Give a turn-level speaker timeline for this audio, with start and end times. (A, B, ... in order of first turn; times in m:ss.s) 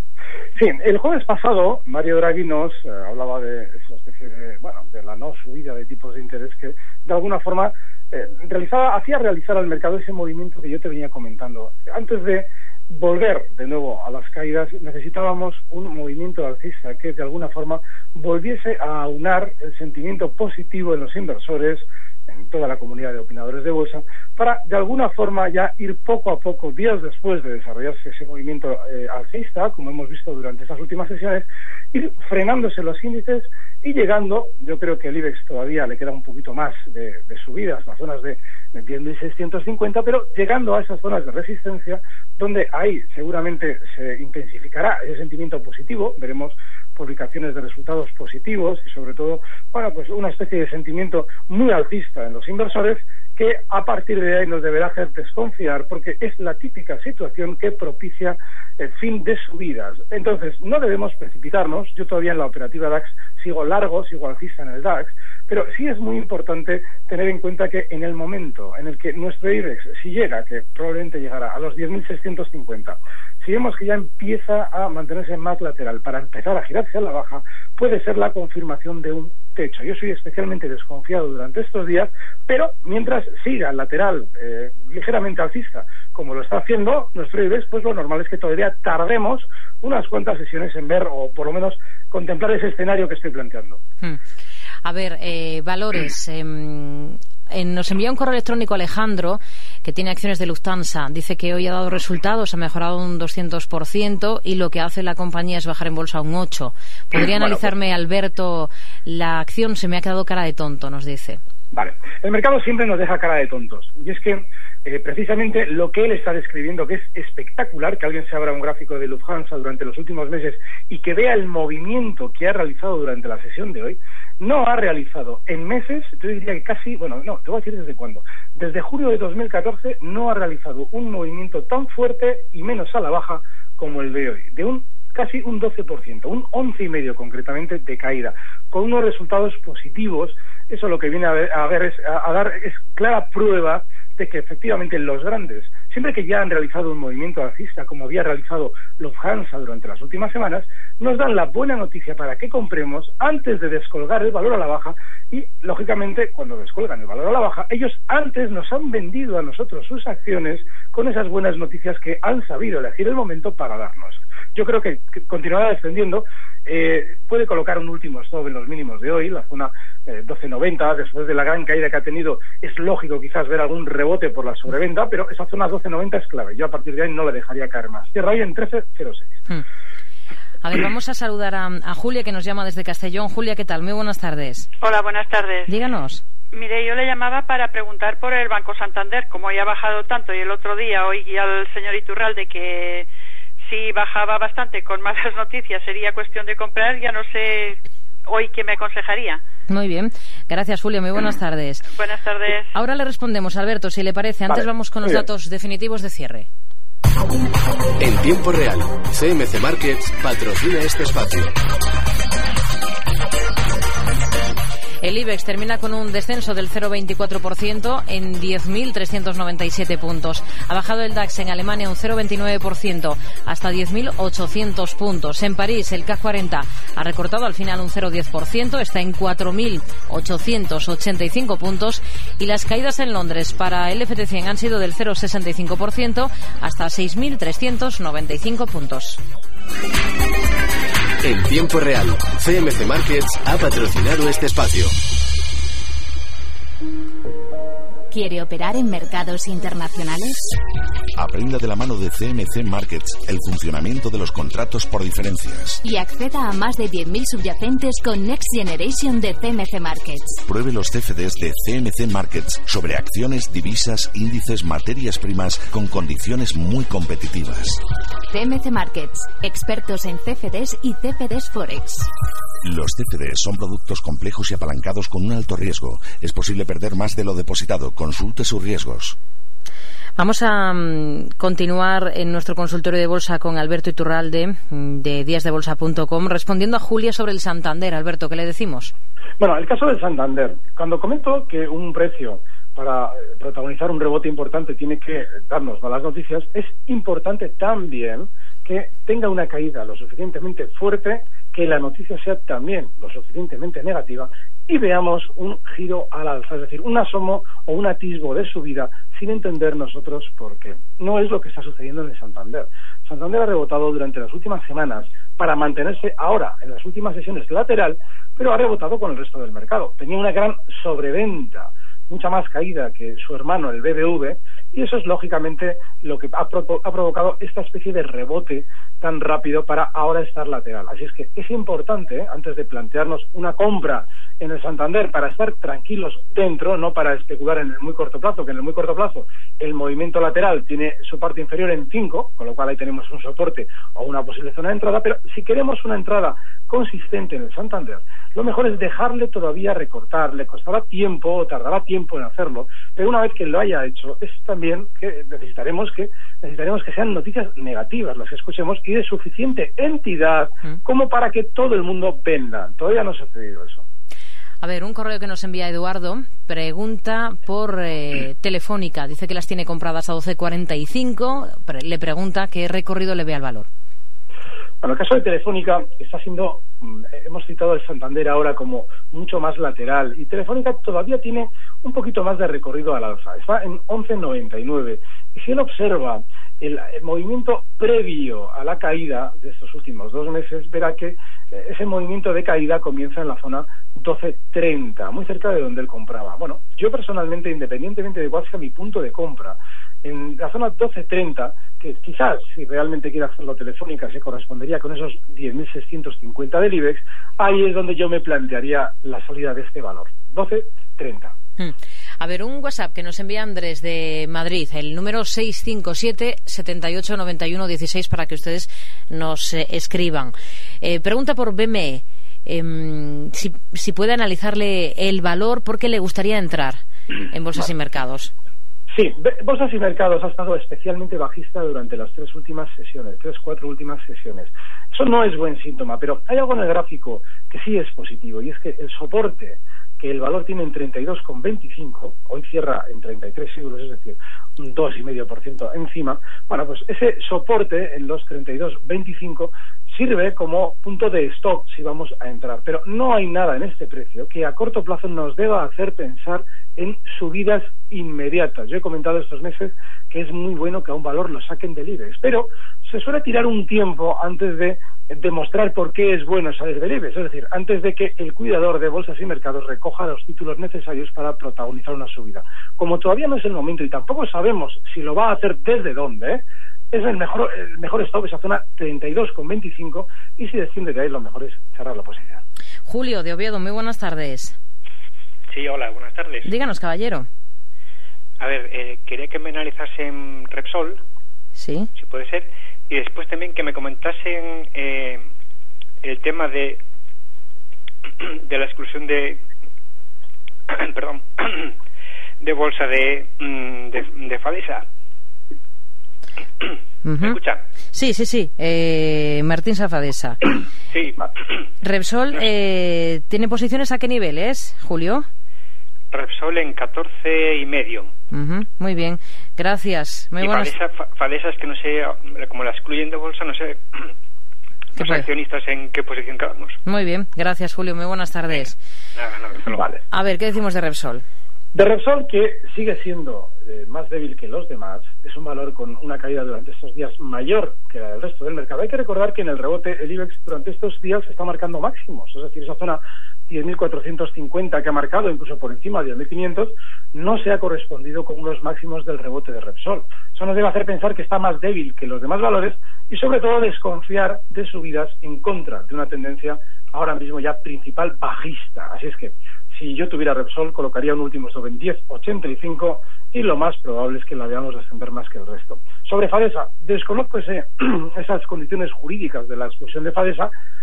0:00.6-1:33.8 A
1:34.8-1:51.4 B
1:47.2-1:47.7 A
1:51.7-2:59.4 A
3:00.6-3:04.7 B
3:04.8-3:05.7 C
3:05.7-3:06.2 B
3:06.5-3:13.1 C
3:13.7-3:19.4 C
3:19.7-3:21.8 B
3:22.0-3:22.7 C
3:22.7-3:26.5 B
3:24.5-3:25.2 A
3:28.0-3:31.5 D
3:35.0-3:59.2 B
4:01.2-4:04.9 D
4:08.1-4:10.5 E
4:11.2-4:15.8 F
4:15.8-4:20.4 E
4:20.5-4:27.8 F
4:28.3-4:32.1 E
4:32.6-4:39.2 F
4:40.2-4:48.9 B
4:49.4-6:03.8 A
6:04.6-6:13.7 B
6:14.8-6:51.3 A
6:51.6-7:08.3 B
7:08.9-8:02.4 A
8:02.8-8:04.6 B
8:05.5-8:06.5 G
8:06.4-8:07.3 B
8:08.4-8:11.0 G
8:11.6-8:11.9 B
8:11.9-8:15.2 G
8:16.0-8:16.8 G
8:18.2-8:19.4 G
8:20.7-8:21.7 G
8:22.4-8:24.8 G
8:27.0-8:27.4 B
8:27.2-8:27.6 G
8:27.9-8:30.4 B
8:30.9-8:31.2 G
8:31.8-8:35.2 B
8:36.1-8:38.1 G
8:38.3-8:40.7 B
8:40.4-8:44.0 G
8:45.0-8:45.3 B
8:45.0-8:46.8 G
8:46.8-8:48.8 B
8:48.5-8:49.8 G
8:49.7-8:50.0 A
8:50.1-8:51.2 B
8:51.7-9:30.5 A